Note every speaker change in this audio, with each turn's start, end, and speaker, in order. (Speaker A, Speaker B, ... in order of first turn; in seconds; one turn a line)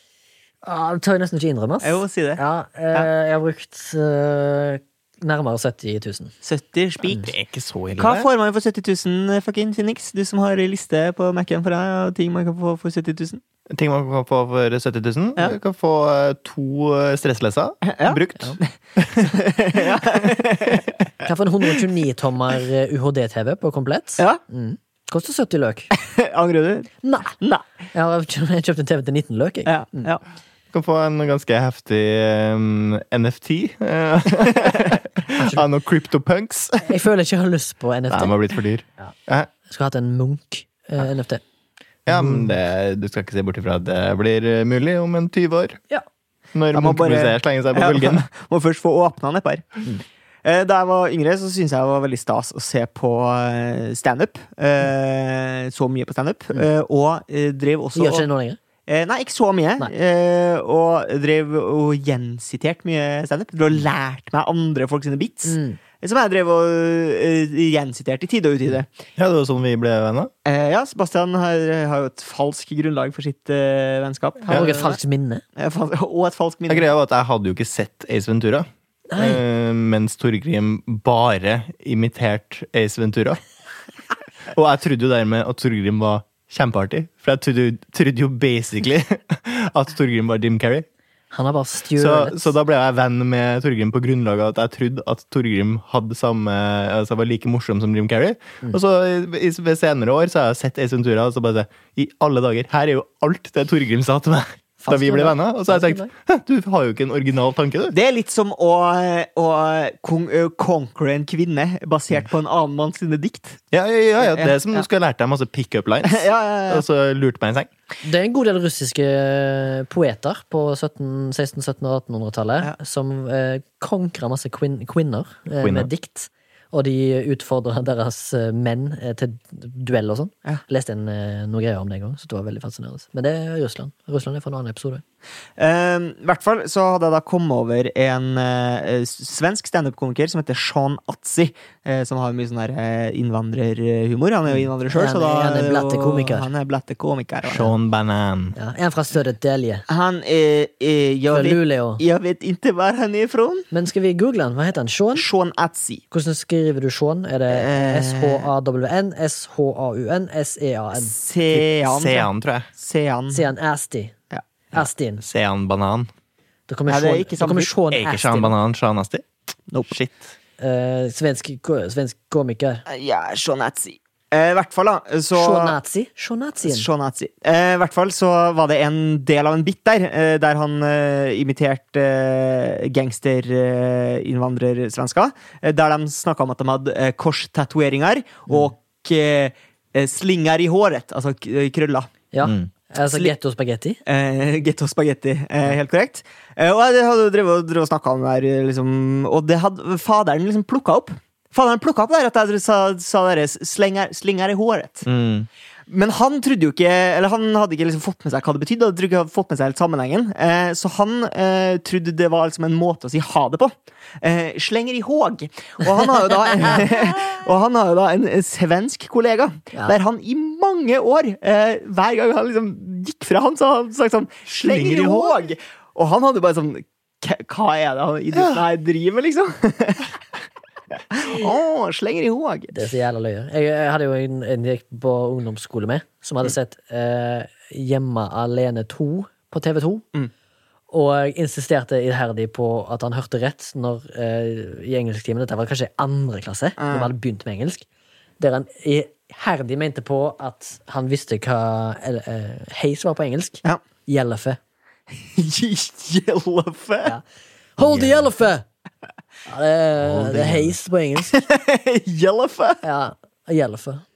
Speaker A: 0.6-6.3
Speaker B: 1.8-2.4
Speaker B: 6.4-7.3
Speaker C: 7.2-8.3
Speaker B: 8.0-13.4
Speaker C: 13.7-19.3
Speaker B: 17.9-18.6
Speaker B: 19.2-21.0
Speaker A: 21.2-25.9
Speaker B: 25.9-27.6
Speaker A: 27.0-27.4
Speaker A: 27.9-30.1
Speaker B: 29.7-30.2
Speaker C: 30.7-37.0
Speaker A: 36.8-38.4
Speaker C: 38.1-39.5
Speaker A: 39.7-41.4
Speaker C: 42.1-45.8
Speaker A: 42.1-42.5
Speaker C: 46.5-48.3
Speaker B: 46.7-49.9
Speaker B: 50.4-58.3
Speaker A: 58.0-58.6
Speaker B: 58.9-68.9
Speaker A: 65.5-65.8
Speaker C: 69.2-70.3
Speaker B: 70.5-75.0
Speaker A: 74.5-75.4
Speaker B: 75.6-76.9
Speaker C: 76.7-83.4
Speaker A: 79.1-79.4
Speaker C: 84.5-90.9
Speaker A: 91.3-92.5
Speaker C: 92.0-108.0
Speaker A: 104.8-106.1
Speaker B: 107.9-113.6
Speaker C: 113.7-117.7
Speaker B: 114.2-114.9
Speaker B: 116.0-116.8
Speaker A: 118.0-135.0
Speaker C: 125.6-125.9
Speaker B: 135.6-147.7
Speaker A: 144.9-146.5
Speaker C: 147.5-148.6
Speaker A: 148.6-149.9
Speaker B: 149.9-153.7
Speaker A: 151.3-152.0
Speaker A: 153.7-155.3
Speaker B: 155.2-156.0
Speaker A: 156.1-161.2
Speaker B: 157.5-158.5
Speaker B: 160.9-163.4
Speaker C: 161.5-162.7
Speaker A: 163.3-164.2
Speaker A: 164.7-165.2
Speaker C: 165.2-166.1
Speaker A: 166.7-168.6
Speaker B: 166.9-167.7
Speaker C: 167.9-169.2
Speaker B: 169.7-170.0
Speaker C: 169.9-170.3
Speaker A: 170.6-172.8
Speaker B: 172.9-175.8
Speaker A: 175.3-176.9
Speaker B: 176.6-192.1
Speaker A: 192.3-194.0
Speaker C: 192.4-192.7
Speaker B: 194.1-205.1
Speaker C: 205.1-205.5
Speaker B: 205.9-230.2
Speaker C: 224.5-225.4
Speaker C: 228.3-228.6
Speaker B: 231.1-232.7
Speaker A: 232.7-240.1
Speaker A: 240.9-247.9
Speaker B: 246.8-247.1
Speaker A: 248.4-254.6
Speaker B: 255.2-257.2
Speaker A: 257.8-258.6
Speaker C: 257.8-258.3
Speaker A: 259.5-261.4
Speaker C: 260.0-260.7
Speaker B: 261.3-262.8
Speaker A: 262.8-264.0